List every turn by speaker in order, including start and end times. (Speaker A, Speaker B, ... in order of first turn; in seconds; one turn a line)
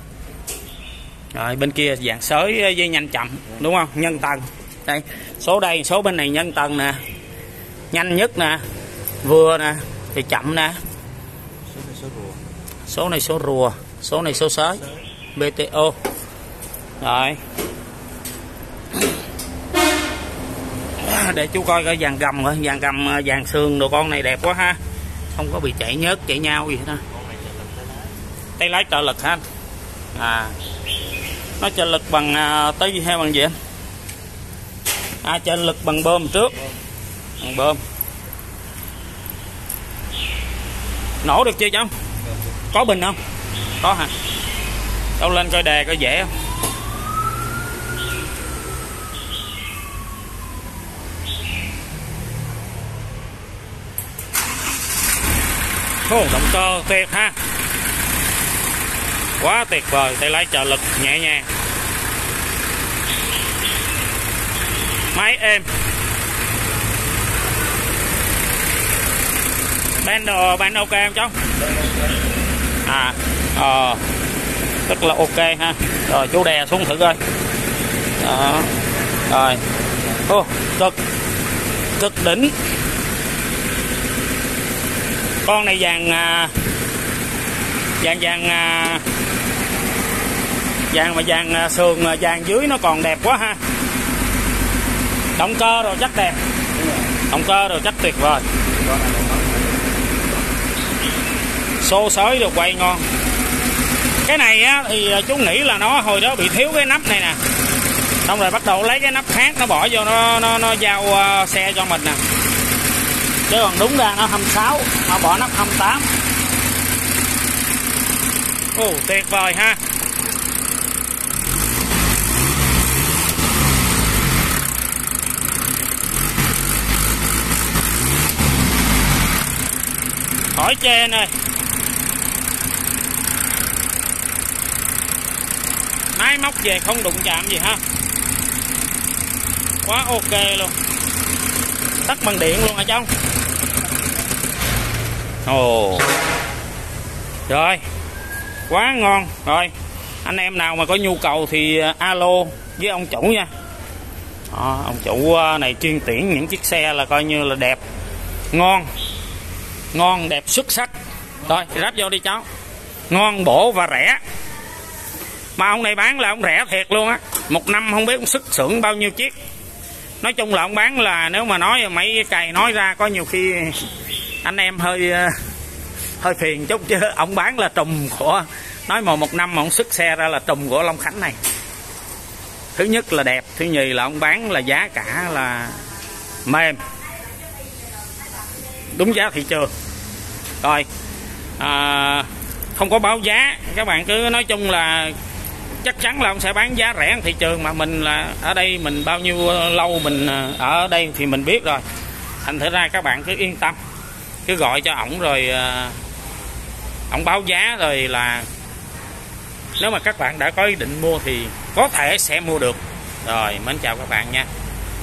Speaker A: 1.3-7.0
Speaker A: 7.9-8.6
Speaker A: 9.2-10.8
Speaker A: 12.9-16.0
Speaker A: 17.0-17.4
Speaker A: 21.0-24.8
Speaker A: 25.4-27.0
Speaker A: 28.6-29.4
Speaker A: 30.1-30.6
Speaker A: 31.6-33.5
Speaker A: 35.2-36.6
Speaker A: 37.4-37.8
Speaker A: 41.2-41.9
Speaker A: 42.7-43.2
Speaker A: 43.8-44.1
Speaker A: 45.2-46.3
Speaker A: 56.0-57.4
Speaker A: 59.4-61.5
Speaker A: 65.1-65.7
Speaker A: 70.0-71.4
Speaker A: 72.8-74.0
Speaker A: 74.9-77.2
Speaker A: 78.2-78.8
Speaker A: 79.3-79.6
Speaker A: 80.2-81.0
Speaker A: 82.0-82.5
Speaker A: 85.4-86.5
Speaker A: 88.0-89.0
Speaker A: 90.9-93.6
Speaker A: 95.4-96.4
Speaker A: 97.2-98.4
Speaker A: 101.8-103.0
Speaker A: 104.2-107.4
Speaker A: 108.2-112.2
Speaker A: 113.5-116.1
Speaker A: 118.8-119.8
Speaker A: 130.5-131.3
Speaker A: 136.2-137.8
Speaker A: 139.8-140.8
Speaker A: 142.1-143.1
Speaker A: 145.4-146.1
Speaker A: 147.5-147.8
Speaker A: 148.7-149.7
Speaker A: 150.2-153.5
Speaker A: 154.5-157.8
Speaker A: 158.5-158.9
Speaker A: 159.9-160.9
Speaker A: 161.4-162.4
Speaker A: 163.1-164.2
Speaker A: 165.6-169.3
Speaker A: 170.2-173.9
Speaker A: 174.4-175.4
Speaker A: 176.2-181.4
Speaker A: 182.8-185.8
Speaker A: 186.4-186.8
Speaker A: 188.9-189.7
Speaker A: 190.6-190.9
Speaker A: 191.6-195.2
Speaker A: 195.8-201.8
Speaker A: 202.4-203.8
Speaker A: 204.4-206.0
Speaker A: 207.1-208.5
Speaker A: 209.8-214.5